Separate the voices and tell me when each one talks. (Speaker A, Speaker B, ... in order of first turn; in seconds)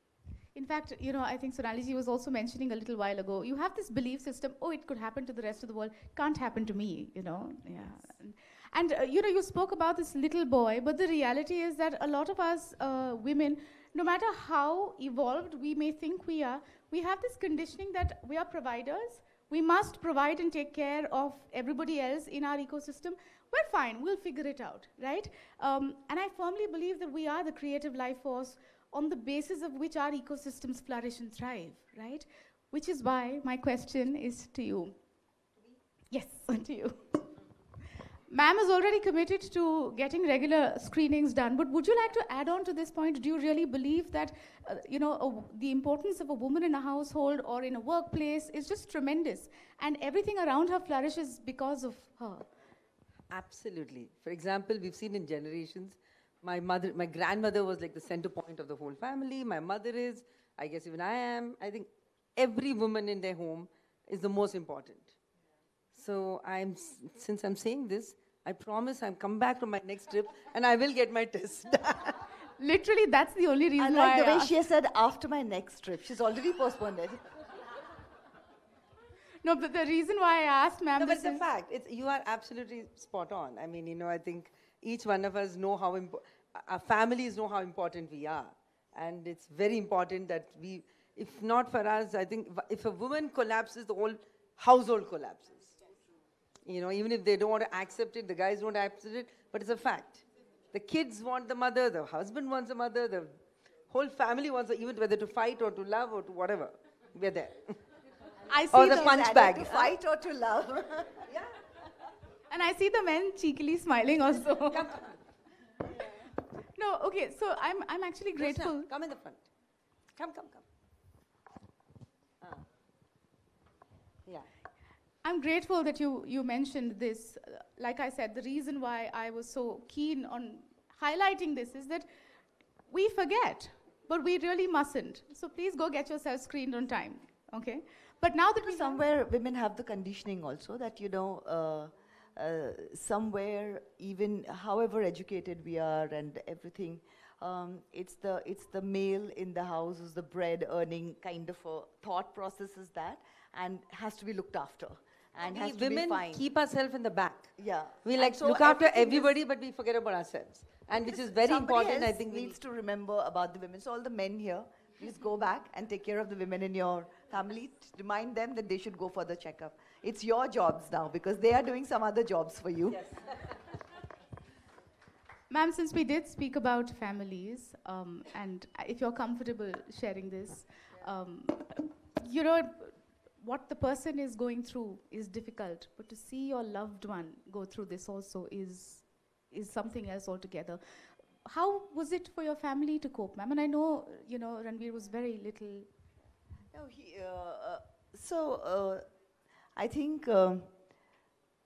Speaker A: 0.5-35.0, 36.1-37.2, 38.3-52.5, 72.6-74.5, 79.4-81.5, 108.5-109.7, 112.5-115.0, 116.8-118.9, 125.2-132.1, 132.9-139.0, 175.5-190.8, 191.4-195.9
Speaker B: 53.3-65.2, 65.9-72.2, 81.0-95.8, 96.7-107.8, 108.7-109.9, 111.3-111.6, 114.7-115.0, 118.4-119.5, 120.2-120.7, 155.4-162.6
Speaker C: 73.8-77.2, 108.7-111.3, 138.6-156.5, 157.6-159.4, 160.9-173.1, 196.7-199.1, 199.8-200.7